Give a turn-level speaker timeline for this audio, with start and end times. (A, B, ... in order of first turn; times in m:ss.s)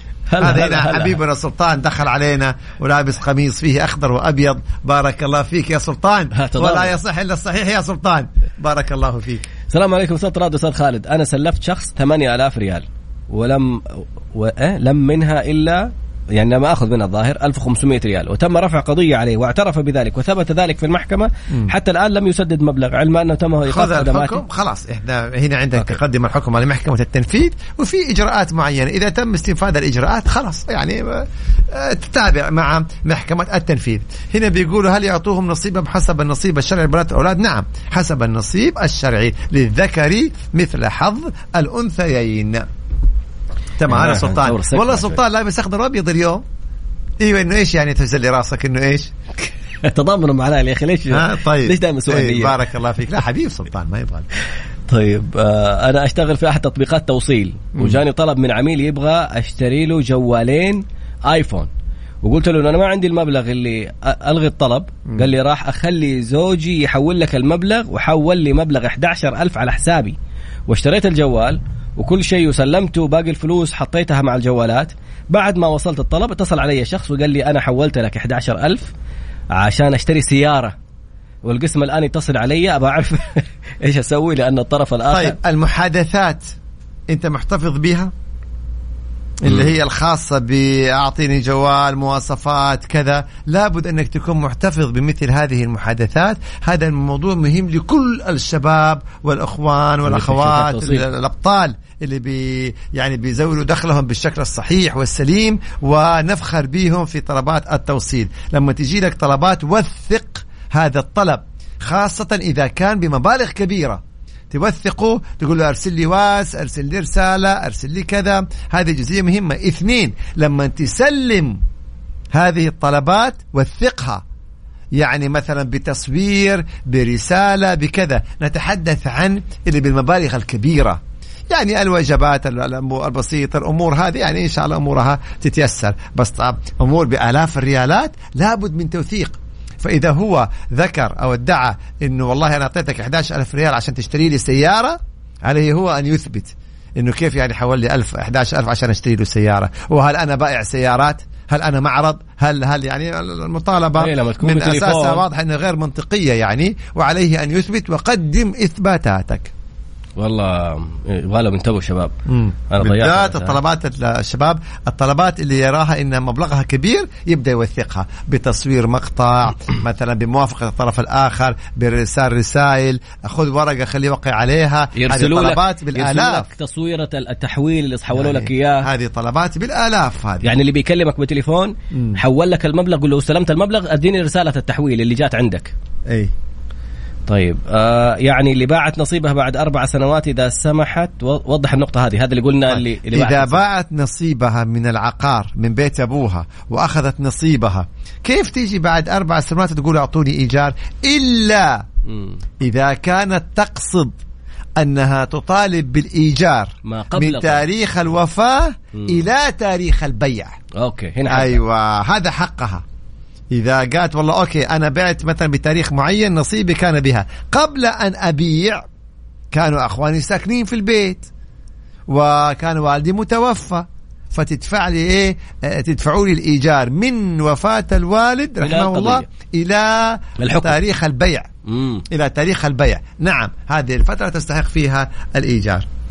0:00.3-0:01.2 A
0:00.4-0:09.5 B
0:06.3-0:07.0 A
0:09.7-0:24.4 A
0:23.6-0:42.7 B
0:43.8-0:46.4 B
0:43.9-0:45.2 A
0:47.2-0:49.1 B
0:49.4-0:52.6 A
0:51.1-0:54.3 B
0:54.9-1:01.7 A
1:02.2-1:10.2 A
1:10.7-1:18.9 A
1:19.5-1:20.8 A
1:21.4-1:25.4 A
1:25.1-1:26.5 B
1:27.1-1:28.1 B
1:29.4-2:01.6 B
1:40.0-1:41.0 A
2:02.3-2:04.2 B
2:05.0-2:39.5 B
2:34.0-2:35.2 A
2:40.2-2:42.1 A
2:42.3-2:56.5 B
2:42.7-2:43.6 A
2:55.0-2:58.9 A
2:58.1-3:00.5 B
3:00.4-3:05.7 A
3:01.9-3:02.2 B
3:07.3-3:13.6 A
3:12.7-3:21.8 B
3:22.0-3:22.4 A
3:22.6-3:24.1 B
3:24.8-3:30.6 B
3:26.8-3:27.6 A
3:30.8-3:31.6 A
3:31.3-3:32.8 B
3:33.5-3:38.8 B
3:39.5-3:41.3 B
3:42.1-3:51.5 B
3:48.6-3:49.2 A
3:50.4-3:50.8 A
3:51.6-3:52.0 A
3:52.1-3:55.8 B